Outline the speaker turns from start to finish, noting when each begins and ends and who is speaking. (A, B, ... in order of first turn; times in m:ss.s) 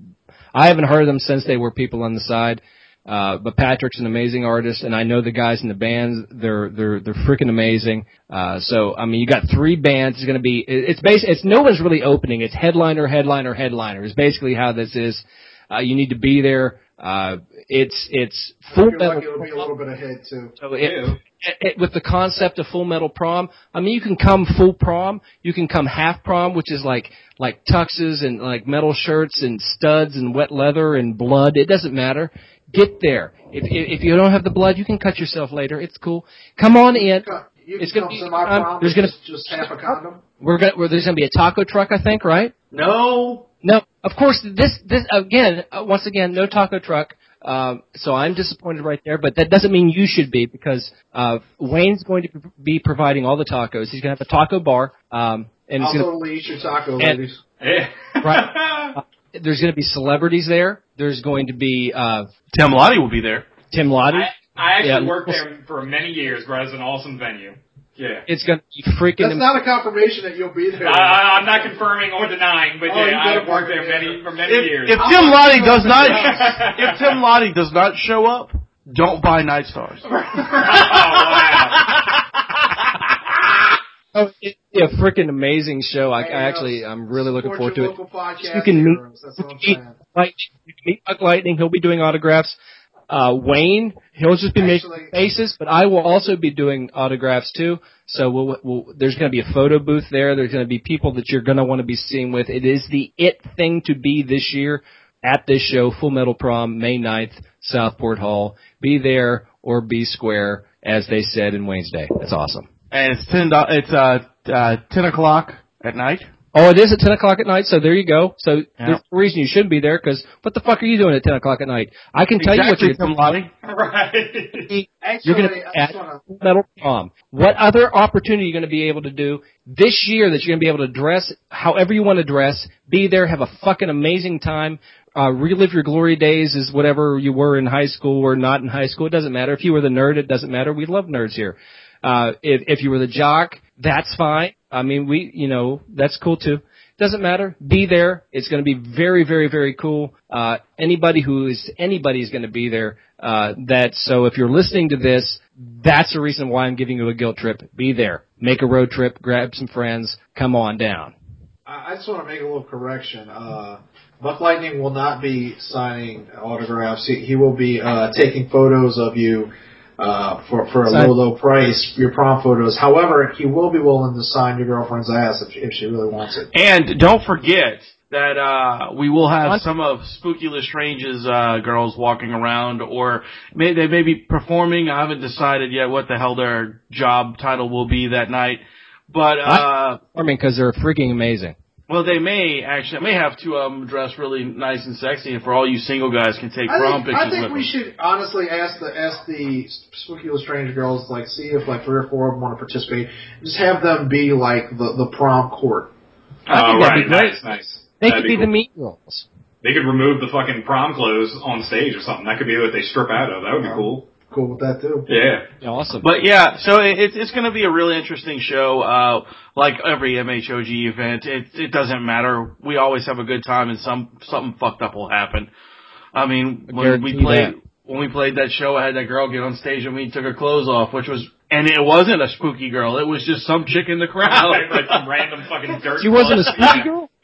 0:00.5-0:19.7 A
0:18.7-0:20.5 B
0:20.6-0:37.3 A
0:20.8-0:21.2 C
0:36.9-0:40.2 B
0:37.8-0:42.5 A
0:42.7-0:43.5 D
0:43.6-0:56.1 A
0:55.8-0:57.4 B
0:57.6-0:58.9 C
0:58.2-1:02.3 A
1:02.5-1:03.5 D
1:03.7-1:04.3 A
1:04.1-1:08.2 C
1:04.8-1:05.4 A
1:08.3-1:09.5 A
1:09.2-1:11.7 B
1:10.8-1:15.3 C
1:12.8-1:14.2 B
1:14.5-1:20.1 D
1:15.0-1:16.6 B
1:15.9-1:17.2 C
1:20.0-1:21.9 C
1:20.8-1:22.0 D
1:24.1-1:32.6 A
1:26.2-1:30.0 B
1:33.1-1:52.7 A
1:34.6-1:35.1 B
1:52.9-1:56.3 D
1:56.5-2:03.4 A
2:02.4-2:03.5 D
2:03.6-2:04.7 C
2:04.7-2:41.1 A
2:05.0-2:06.2 B
2:41.6-2:56.5 B
2:50.9-2:51.1 A
2:56.5-3:10.0 D
3:09.4-3:11.6 A
3:11.9-3:17.7 D
3:16.7-3:25.9 B
3:26.5-3:27.4 A
3:26.5-3:28.5 C
3:28.0-3:29.2 A
3:29.6-3:34.0 C
3:33.6-3:35.1 B
3:35.1-3:35.4 C
3:35.6-3:36.1 A
3:36.0-3:45.5 D
3:46.1-3:55.0 D
3:46.7-3:47.5 A
3:54.2-3:56.9 C
3:56.0-3:57.1 A
3:56.4-3:56.8 D